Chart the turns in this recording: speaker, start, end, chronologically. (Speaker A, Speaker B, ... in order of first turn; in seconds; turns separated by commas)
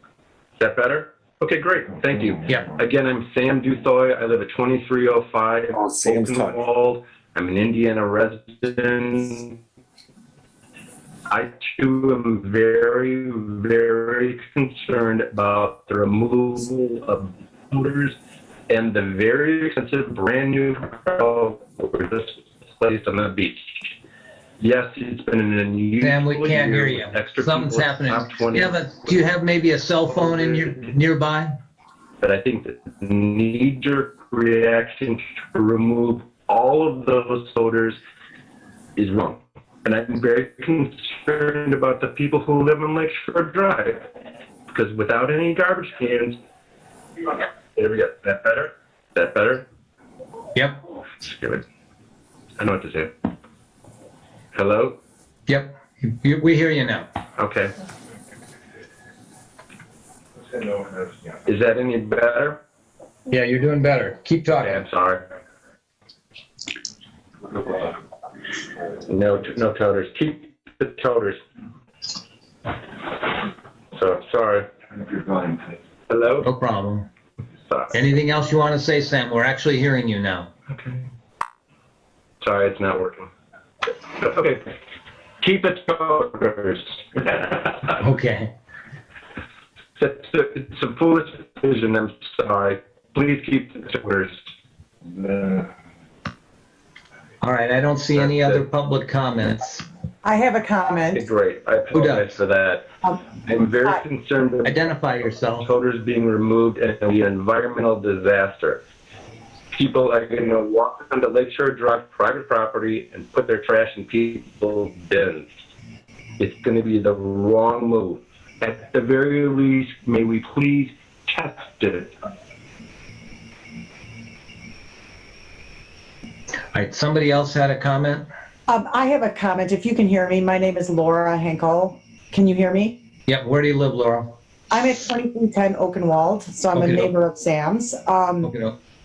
Speaker A: 0.6-9.5, Speaker A: 11.3-18.1, Speaker A: 18.7-23.6, Speaker A: 24.6-29.2, Speaker B: 26.0-31.5, Speaker A: 30.1-30.8, Speaker A: 32.2-38.0, Speaker A: 39.0-44.0, Speaker A: 44.7-46.3, Speaker A: 47.8-49.6, Speaker B: 50.5-50.8, Speaker A: 51.3-51.6, Speaker A: 52.6-53.1, Speaker A: 54.5-55.0, Speaker B: 55.5-57.1, Speaker A: 57.4-57.7, Speaker A: 61.5-62.6, Speaker B: 63.3-64.8, Speaker A: 64.6-65.2, Speaker A: 69.1-71.4, Speaker A: 74.0-74.7, Speaker A: 76.1-76.5, Speaker B: 76.4-77.1, Speaker B: 77.9-80.5, Speaker A: 82.4-83.3, Speaker A: 84.2-84.7, Speaker A: 85.4-87.8, Speaker B: 88.0-88.5, Speaker A: 90.0-94.3, Speaker B: 97.4-99.8, Speaker A: 98.2-98.6, Speaker C: 100.2-101.2, Speaker A: 101.1-102.9, Speaker B: 101.9-102.4, Speaker A: 103.5-104.8, Speaker B: 104.6-105.7, Speaker A: 105.6-108.8, Speaker A: 109.7-115.5, Speaker A: 116.4-122.1, Speaker B: 126.7-128.3, Speaker C: 128.7-132.9, Speaker B: 133.3-134.3, Speaker C: 134.7-138.5, Speaker B: 136.8-137.1, Speaker B: 138.4-138.7